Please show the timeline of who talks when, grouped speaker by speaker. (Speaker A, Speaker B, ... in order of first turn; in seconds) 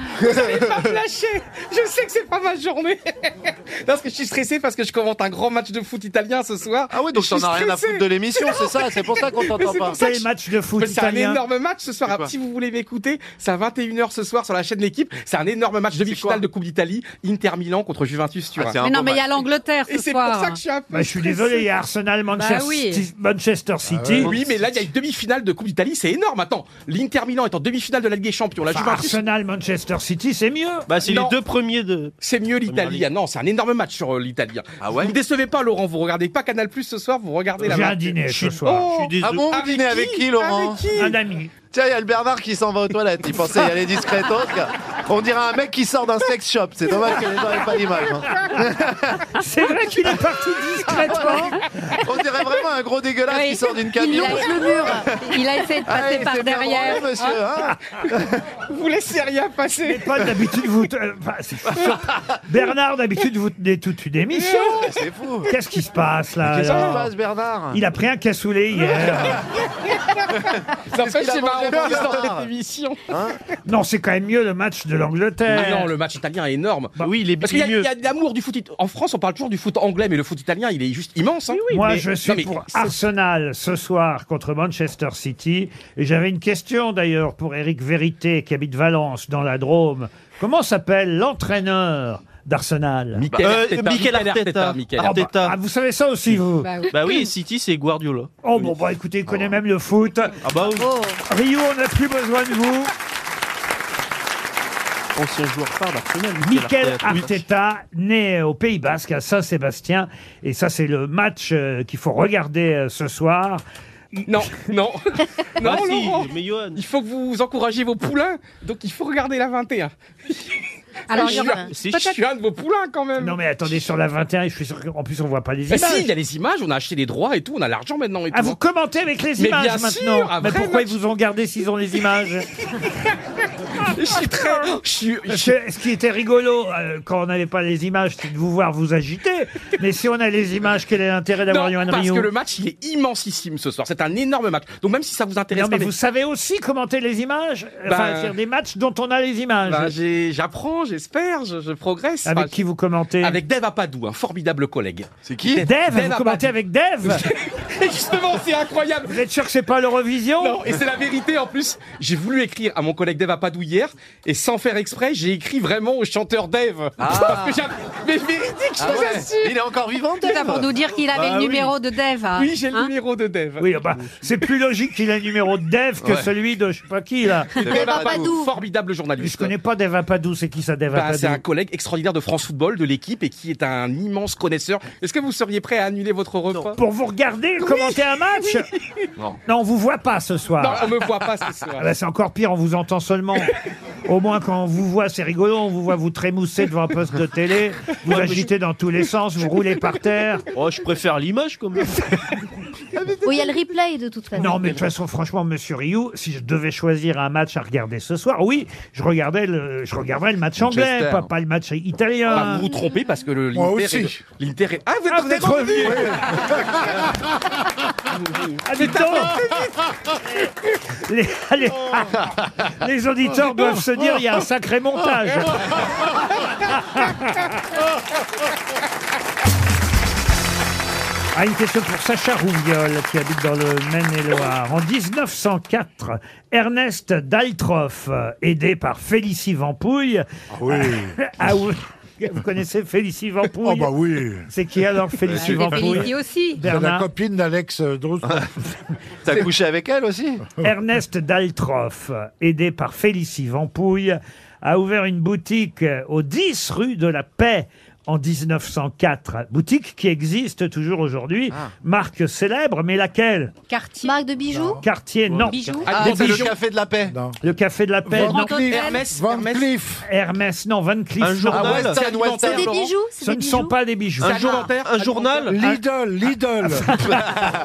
Speaker A: 0.2-10.2, 10.8-18.8, 19.9-21.4, 24.2-29.2, 31.0-31.3, 32.2-41.1, 58.7-60.1, 64.4-64.9, 66.6-67.0, 70.9-73.0, 75.5-82.9, 93.1-95.2, 114.2-120.5, 121.1-123.4, 125.7-128.6, 129.4-130.9, 133.9-135.6, 141.5-145.9, 147.9-148.3, 149.7-152.6, 153.2-156.5, 157.0-159.2, 160.4-169.6, 171.2-171.7, 172.3-173.7, 177.6-179.5, 180.9-186.8, 190.6-191.9, 212.3-216.1, 218.2-219.8, 265.9-266.6, 268.6-269.7, 271.6-272.9, 274.2-275.5
Speaker B: 0.2-0.9, 6.9-10.0, 12.1-12.3, 15.9-16.4, 18.6-19.4, 34.8-35.1, 39.2-40.8, 41.7-49.3, 50.9-58.3, 61.8-62.2, 64.8-65.5, 66.5-67.8, 70.4-72.5, 73.1-73.4, 93.3-93.5, 155.2-155.6, 167.0-167.6, 168.8-170.7, 176.0-176.3, 177.7-178.3, 210.6-211.3, 245.3-245.8, 249.2-250.4, 265.9-267.1, 271.5-272.8
Speaker C: 9.9-11.4, 20.9-24.3, 28.7-30.9, 37.6-38.9, 41.0-41.5, 49.4-51.6, 59.8-64.8, 65.5-67.1, 67.7-69.4, 73.7-75.9, 81.7-93.2, 95.0-96.7, 98.4-100.4, 101.3-102.9, 106.4-113.6, 123.2-126.1, 128.3-132.5, 135.3-142.3, 145.5-149.9, 152.2-153.4, 155.6-157.2, 159.1-160.6, 173.6-177.6, 179.2-181.4, 186.8-188.7, 189.5-190.9, 191.8-193.5, 194.1-200.4, 204.4-212.7, 215.1-216.2, 218.6-219.4, 221.0-222.2, 222.8-225.7, 226.7-227.4, 231.3-243.9, 244.5-247.1, 250.6-263.5, 264.8-266.3, 267.4-268.6, 270.1-271.9, 273.2-274.4
Speaker D: 18.8-20.6, 22.3-23.1, 53.3-57.4, 96.6-96.9, 121.1-122.2, 170.2-172.9, 245.3-246.6, 263.7-264.2, 265.4-266.2, 268.1-269.0
Speaker E: 23.8-24.4, 213.5-214.2, 215.8-217.1, 240.5-241.5, 243.6-244.5, 246.6-248.5, 264.5-264.8, 267.1-267.4, 268.1-270.0, 275.4-276.9
Speaker F: 30.9-33.1, 38.3-39.5, 77.0-77.9, 93.4-95.5, 96.9-98.3, 100.4-100.9, 105.2-107.4, 115.6-116.8, 121.2-122.2, 198.1-198.5, 200.5-202.0, 271.2-272.0, 274.2-275.7
Speaker G: 100.8-101.2, 121.3-121.6, 177.7-178.5, 203.2-204.8, 264.0-264.8, 272.3-273.7, 274.4-274.6